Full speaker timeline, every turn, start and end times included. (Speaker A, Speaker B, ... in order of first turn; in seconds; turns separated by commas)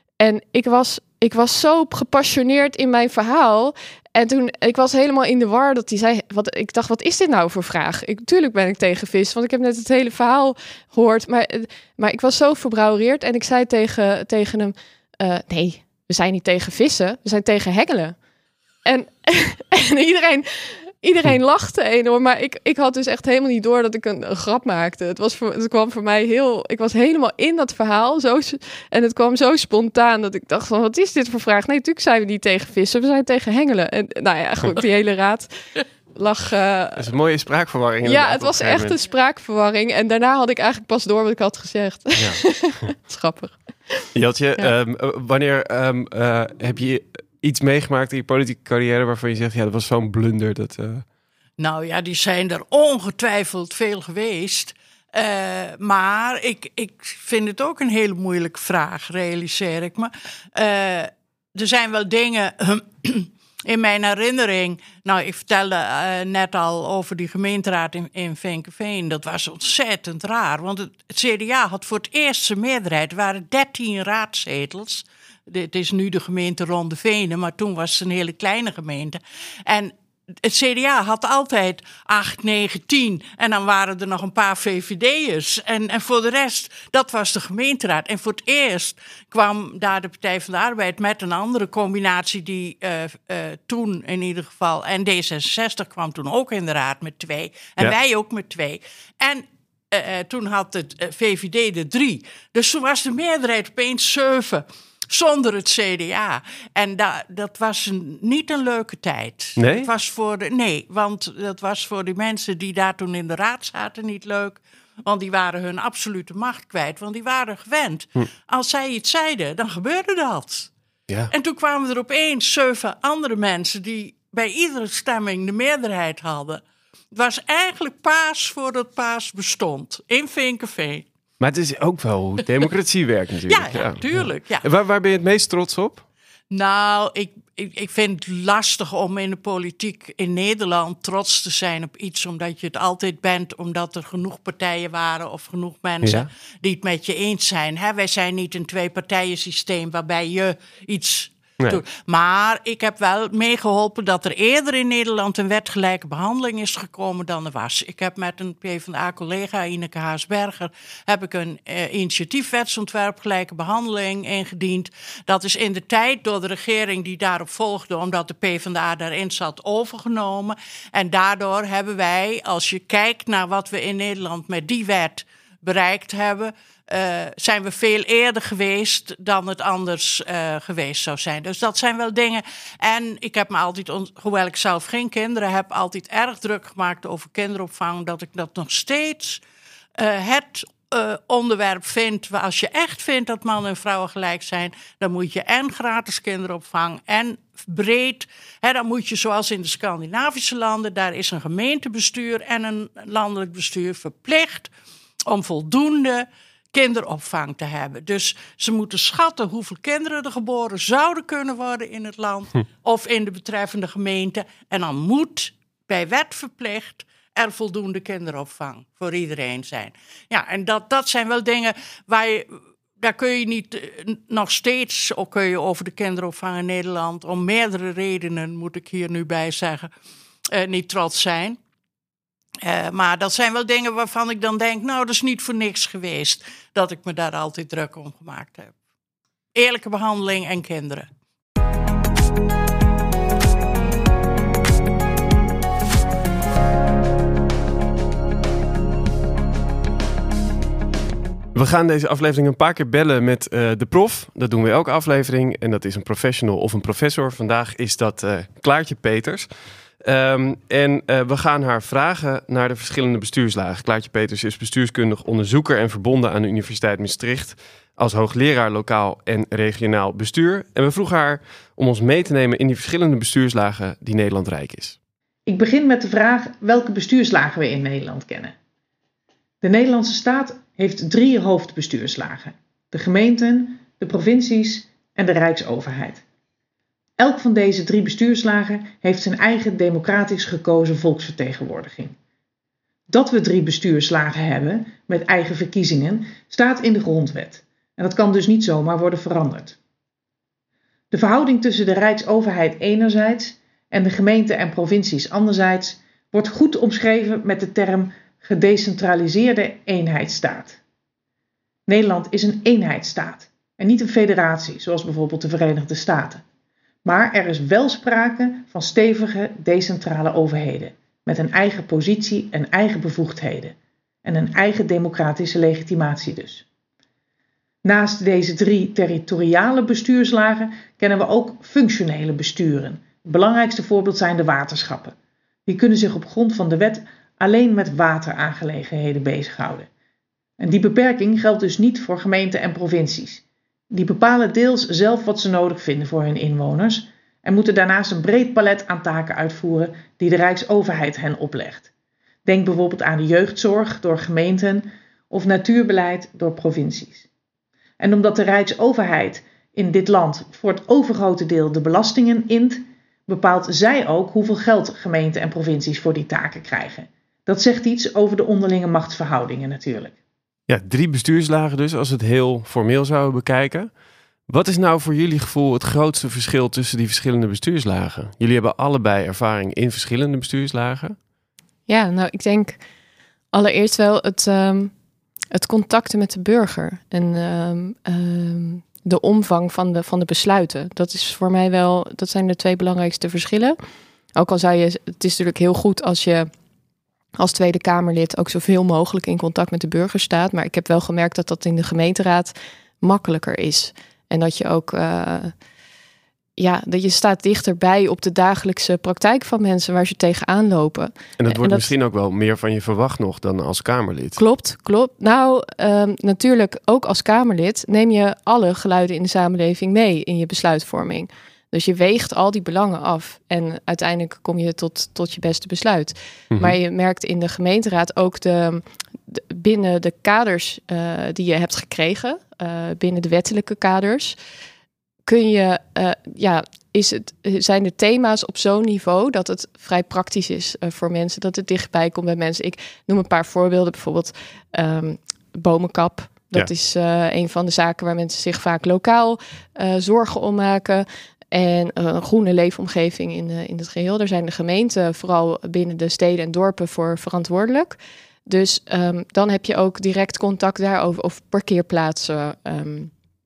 Speaker A: 0.2-18.1, Speaker A: 18.8-35.5, Speaker A: 36.1-37.1, Speaker B: 37.0-39.0, Speaker A: 38.0-44.7, Speaker B: 42.2-42.9, Speaker B: 44.1-51.0, Speaker C: 51.6-79.9, Speaker C: 80.4-120.7, Speaker B: 109.6-109.9, Speaker C: 121.3-131.1, Speaker B: 131.4-136.0, Speaker C: 133.5-134.7, Speaker C: 136.5-189.4, Speaker B: 146.0-146.3, Speaker C: 190.0-204.7, Speaker C: 205.3-229.9, Speaker C: 230.5-231.6, Speaker C: 232.6-238.7, Speaker C: 239.5-241.1, Speaker B: 251.5-259.5, Speaker B: 260.0-275.0, Speaker D: 275.5-278.5, Speaker D: 279.6-286.2, Speaker D: 287.2-292.1, Speaker D: 293.1-299.8, Speaker D: 301.1-310.8, Speaker D: 311.9-316.4, Speaker D: 317.0-326.6, Speaker D: 327.8-335.1, Speaker D: 335.7-339.9, Speaker D: 340.6-351.9, Speaker D: 352.4-357.2, Speaker D: 358.0-370.1, Speaker B: 370.7-373.9, Speaker B: 374.5-381.2, Speaker A: 381.9-382.8, Speaker A: 383.5-384.9, Speaker A: 385.5-393.8, Speaker A: 394.4-396.5, Speaker A: 397.4-405.5, Speaker A: 406.6-411.9, Speaker B: 411.4-414.4, Speaker A: 414.4-434.4, Speaker B: 426.5-426.8, Speaker A: 435.2-463.1